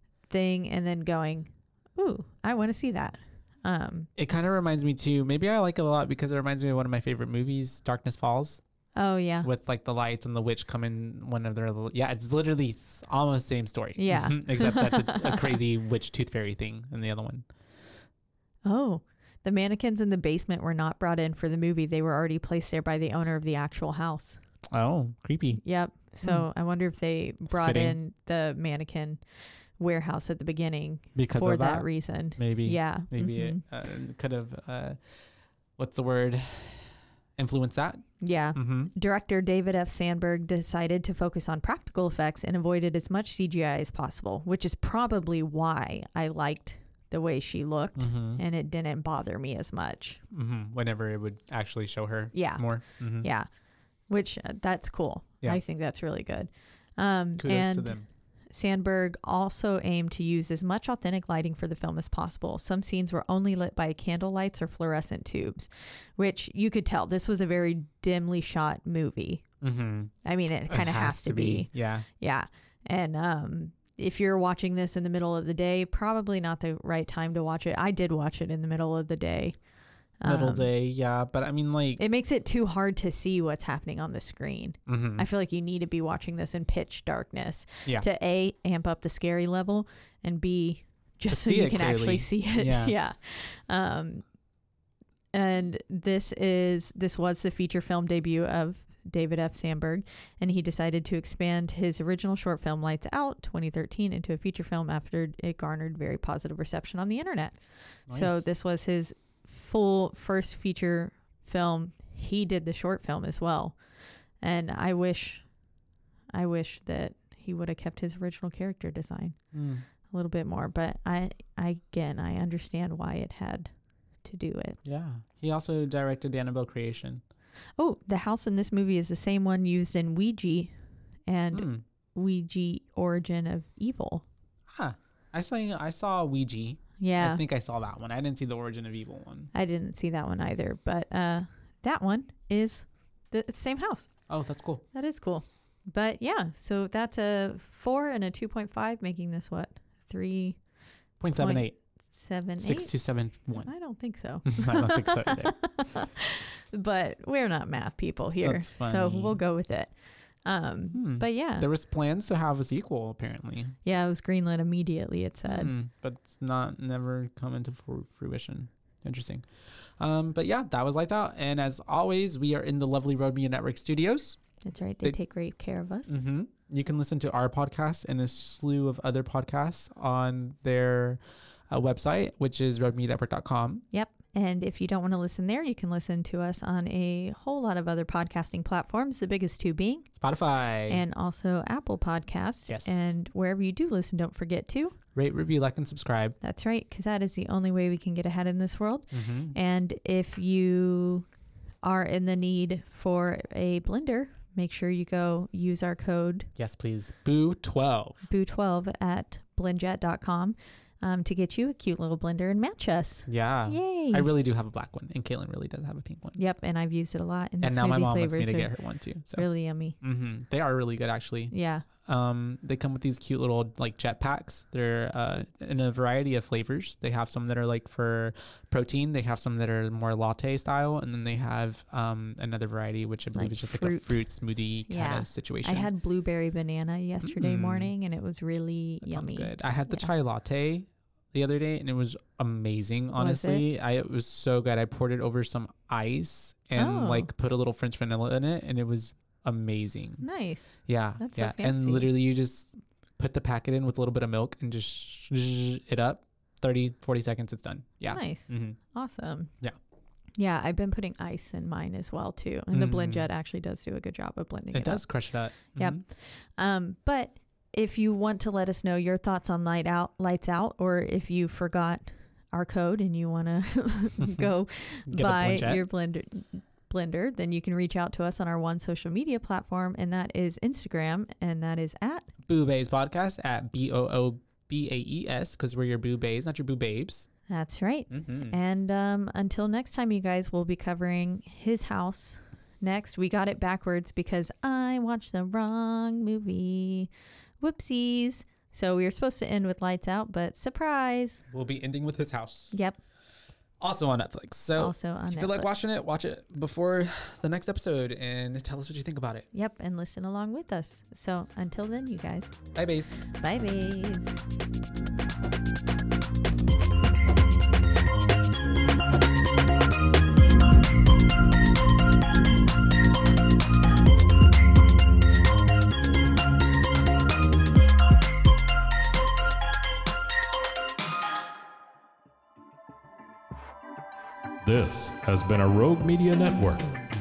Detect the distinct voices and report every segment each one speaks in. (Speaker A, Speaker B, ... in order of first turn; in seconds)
Speaker A: 0.3-4.1, 8.9-9.5, 14.0-15.6, 18.6-24.4, 25.6-29.2, 29.8-33.6, 38.2-50.2, 52.3-52.6, 53.2-53.5, 54.1-58.0, 58.5-69.4, 70.2-79.5, 80.2-80.7, 82.0-94.2, 95.3-107.6, 108.1-113.8, 114.4-115.4, 116.3-119.4, 120.1-123.7, 124.2-124.8, 127.8-130.7, 131.3-134.2, 137.0-137.4, 139.5-144.1, 144.9-150.6, 151.3-152.9, 153.5-159.9, 160.4-161.7, 163.8-165.7, 174.6-176.2, 183.9-190.1, 190.9-194.9, 196.4-201.3, 201.8-206.5, 208.3-214.3, 216.4-218.7, 219.3-220.0, 221.5-221.8, 233.3-234.2, 234.9-240.1, 243.1-243.6, 246.8-247.3, 250.2-252.1, 258.1-259.5, 260.4-265.0, 265.8-282.3, 287.5-301.4, 302.7-303.0, 304.8-305.7, 309.5-312.6, 313.3-314.4
Speaker B: 4.2-8.6, 9.4-17.4, 24.7-25.6, 27.5-28.0, 31.1-35.0, 35.8-38.0, 38.5-38.9, 48.0-48.4, 50.3-53.3, 57.4-58.0, 69.6-70.1, 70.7-72.1, 80.2-82.0, 84.9-85.2, 91.3-92.9, 108.1-108.5, 119.5-119.8, 124.8-127.2, 131.5-131.8, 134.7-139.5, 144.3-144.8, 151.2-151.8, 152.6-153.7, 154.4-155.5, 158.4-159.4, 160.9-163.7, 165.4-169.4, 170.0-174.4, 176.1-183.8, 190.2-191.0, 192.7-193.1, 195.1-196.4, 199.1-199.6, 206.6-208.2, 213.3-216.4, 217.6-219.4, 220.0-235.9, 237.2-237.9, 239.0-250.2, 250.9-258.8, 262.7-263.3, 264.7-266.0, 274.2-274.5, 275.1-275.8, 282.4-287.3, 288.1-288.6, 301.5-302.7, 303.8-309.5, 312.7-313.2
Speaker C: 334.6-336.9